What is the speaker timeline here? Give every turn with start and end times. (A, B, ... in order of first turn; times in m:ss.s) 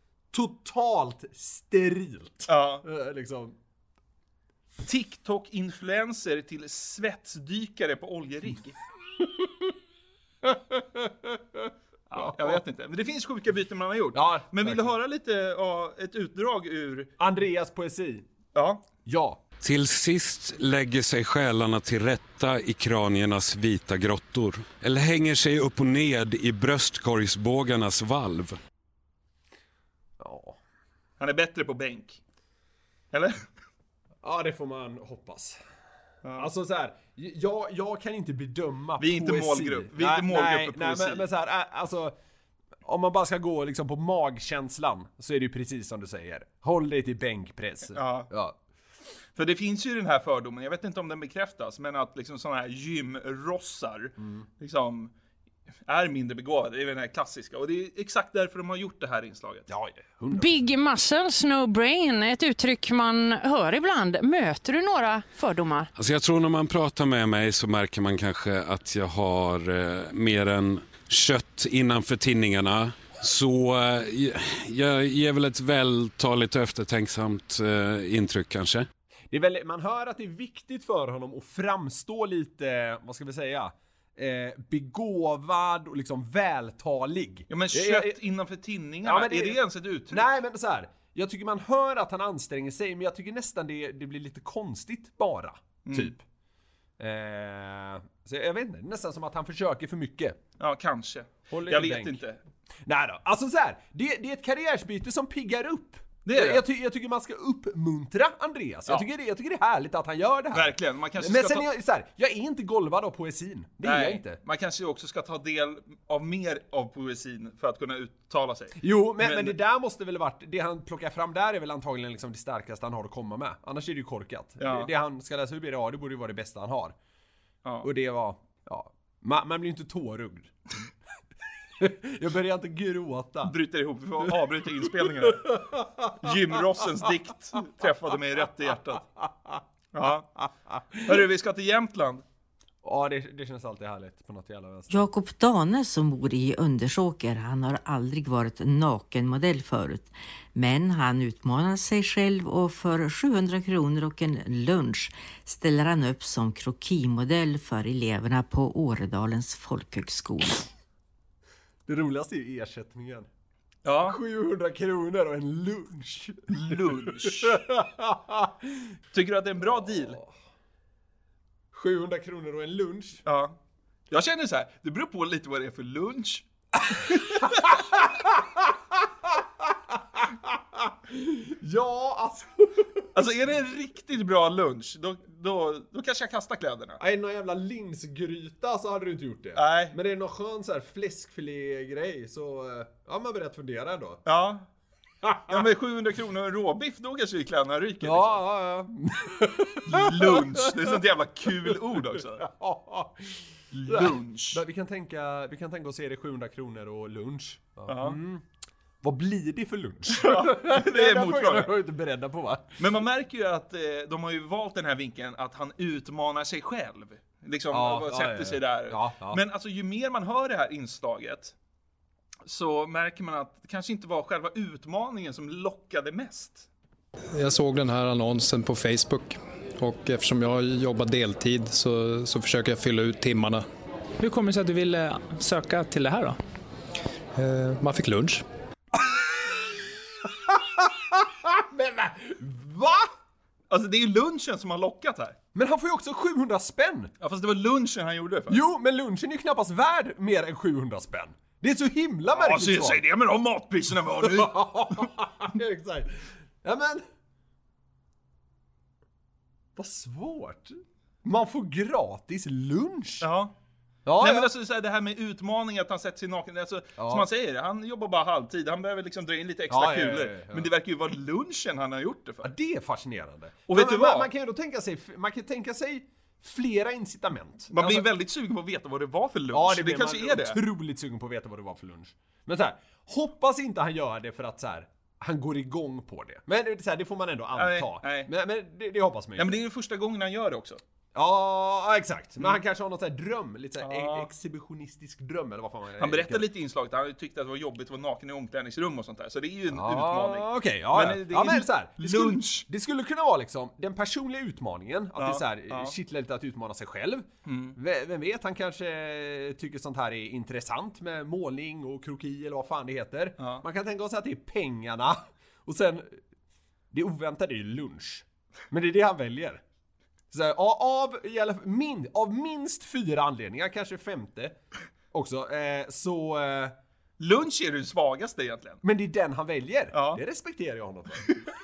0:00.3-0:03.6 A
0:02.5-0:02.8 B
0:04.8-0:08.8 B
0:10.4-0:12.6 A
0:12.1-0:17.1 B
0:14.1-0:14.9 A
0:17.2-0:18.2 A
0:18.5-0:18.8 B
0:19.0-0:19.4 A
0:19.6-0:28.6 C
0:30.2-0:30.6 A
0:31.2-0:32.2 B
0:34.2-0:35.6 A
0:36.2-0:36.5 B
0:36.3-0:42.1 A
0:39.0-0:41.3 B
0:42.8-0:48.6 A
0:47.9-0:48.3 B
0:49.4-0:55.1 B
0:54.2-0:54.5 A
0:55.9-0:59.7 B
0:59.7-1:00.6 A
1:00.3-1:05.9 D
1:06.0-1:18.9 C
1:19.3-1:28.2 A
1:27.5-1:30.3 B
1:29.0-1:36.2 A
1:35.8-1:36.1 B
1:37.0-1:40.4 A
1:40.6-1:42.4 B
1:41.5-1:42.2 A
1:42.8-1:54.4 A
1:46.2-1:46.6 B
1:50.5-1:51.7 B
1:53.8-1:59.6 B
1:58.8-2:07.0 A
2:04.6-2:04.9 B
2:07.8-2:10.5 A
2:11.8-2:13.6 A
2:13.4-2:19.1 B
2:15.0-2:16.2 A
2:19.9-2:20.3 B
2:21.0-2:22.2 B
2:22.8-2:25.1 A
2:24.9-2:40.7 E
2:41.9-2:43.3 A
2:43.8-2:44.2 B
2:44.0-2:48.8 A
2:46.5-2:47.6 B
2:49.1-2:50.2 B
2:49.8-2:50.3 A
2:51.7-2:53.2 A
2:53.3-2:53.6 B
2:54.1-2:57.8 B
2:57.1-3:03.0 A
3:03.1-3:07.0 B
3:07.0-3:14.2 A
3:09.6-3:10.0 B
3:14.2-3:14.6 B
3:15.2-3:15.6 A
3:15.5-3:18.4 B
3:18.0-3:21.0 A
3:19.8-3:22.4 B
3:21.7-3:28.4 A
3:23.7-3:24.6 B
3:27.9-3:28.2 B
3:29.0-3:32.8 A
3:30.1-3:31.7 B
3:32.8-3:41.6 B
3:37.7-3:39.4 A
3:42.4-3:46.7 B
3:47.3-3:53.7 F
3:54.2-3:56.4 G
3:57.3-3:58.4 F
3:59.0-4:03.1 A
4:03.7-4:05.4 B
4:05.5-4:07.1 A
4:07.2-4:08.6 B
4:08.5-4:13.0 A
4:12.3-4:15.1 B
4:14.2-4:17.0 A
4:19.8-4:23.3 A
4:23.2-4:23.5 B
4:24.0-4:24.5 A
4:24.2-4:32.5 B
4:27.0-4:27.3 A
4:29.7-4:30.7 A
4:32.4-4:38.0 A
4:33.7-4:34.3 B
4:37.7-4:40.6 B
4:39.5-4:49.6 A
4:47.6-4:48.3 B
4:49.4-4:50.8 B
4:51.1-4:56.5 A
4:53.8-4:54.3 B
4:56.0-5:02.7 B
4:59.7-5:16.2 A
5:05.2-5:06.0 B
5:07.4-5:07.8 B
5:13.4-5:13.6 B
5:16.9-5:19.6 A
5:20.3-5:24.6 A
5:25.1-5:26.8 A
5:27.2-5:28.8 B
5:28.8-5:31.3 A
5:29.9-5:30.2 B